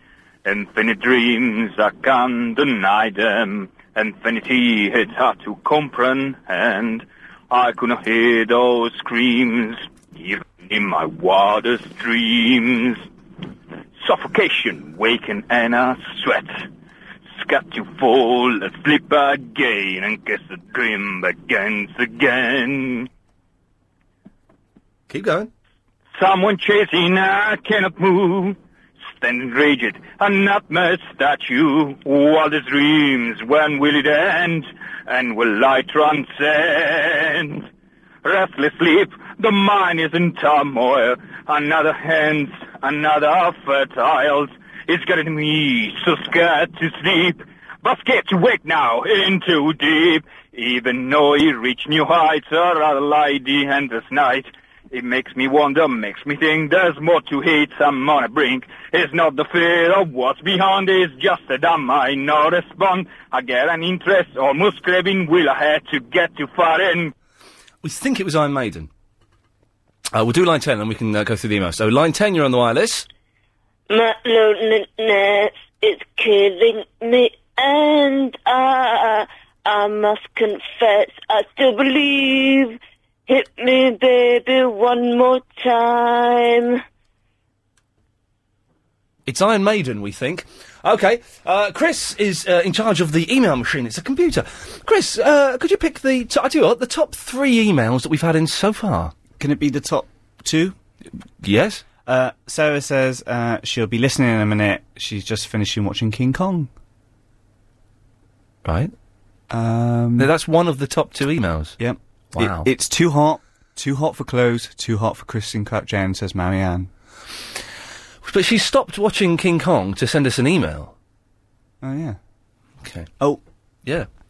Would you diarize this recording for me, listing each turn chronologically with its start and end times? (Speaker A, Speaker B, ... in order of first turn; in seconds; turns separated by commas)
Speaker A: 0.4-13.1, Speaker A: 14.0-16.7, Speaker A: 17.3-23.1, Speaker B: 25.1-25.5, Speaker A: 26.1-28.6, Speaker A: 29.1-37.7, Speaker A: 38.2-67.1, Speaker B: 67.8-68.9, Speaker B: 70.1-73.0, Speaker C: 73.9-86.8, Speaker B: 89.2-99.1, Speaker D: 99.4-100.8, Speaker B: 101.4-101.8, Speaker D: 102.0-106.7, Speaker B: 108.6-108.9, Speaker D: 109.5-110.3, Speaker B: 110.2-111.8, Speaker D: 111.8-116.9, Speaker B: 112.3-112.7, Speaker B: 118.2-120.9, Speaker D: 121.8-122.2, Speaker B: 122.8-123.1